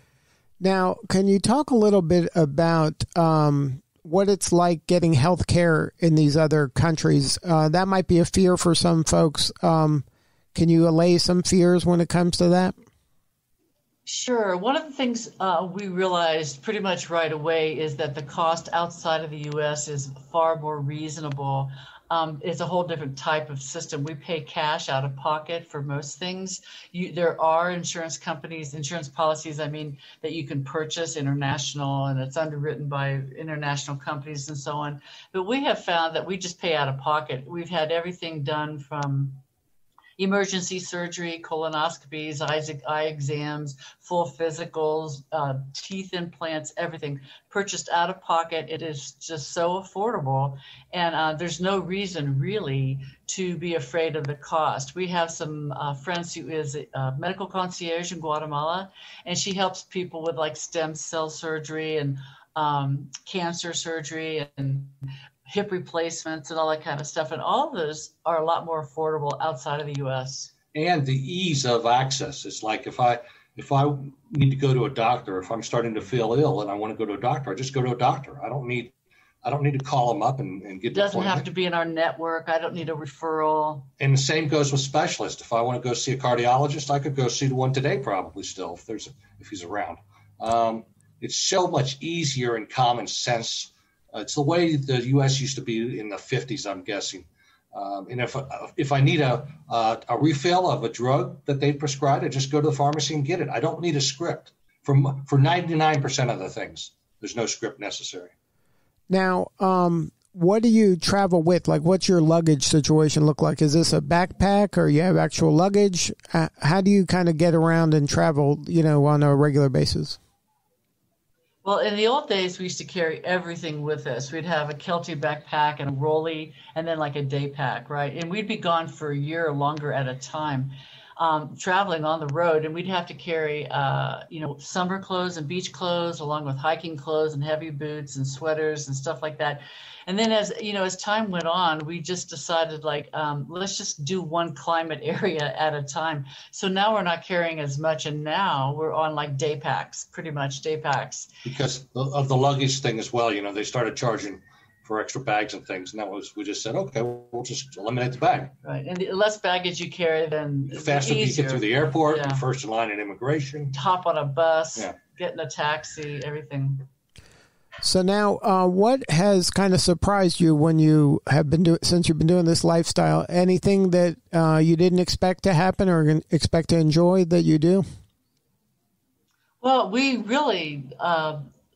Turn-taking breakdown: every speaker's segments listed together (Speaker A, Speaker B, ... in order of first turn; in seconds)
Speaker A: 0.6-12.7, 109.1-120.2, 167.8-177.8
Speaker B: 14.1-39.4, 40.2-64.9, 65.5-70.5, 80.9-83.9, 121.6-151.3, 158.6-162.4, 163.7-166.9, 179.6-181.4
Speaker C: 70.7-78.9, 79.4-81.5, 84.0-108.3, 151.4-158.5, 160.7-163.7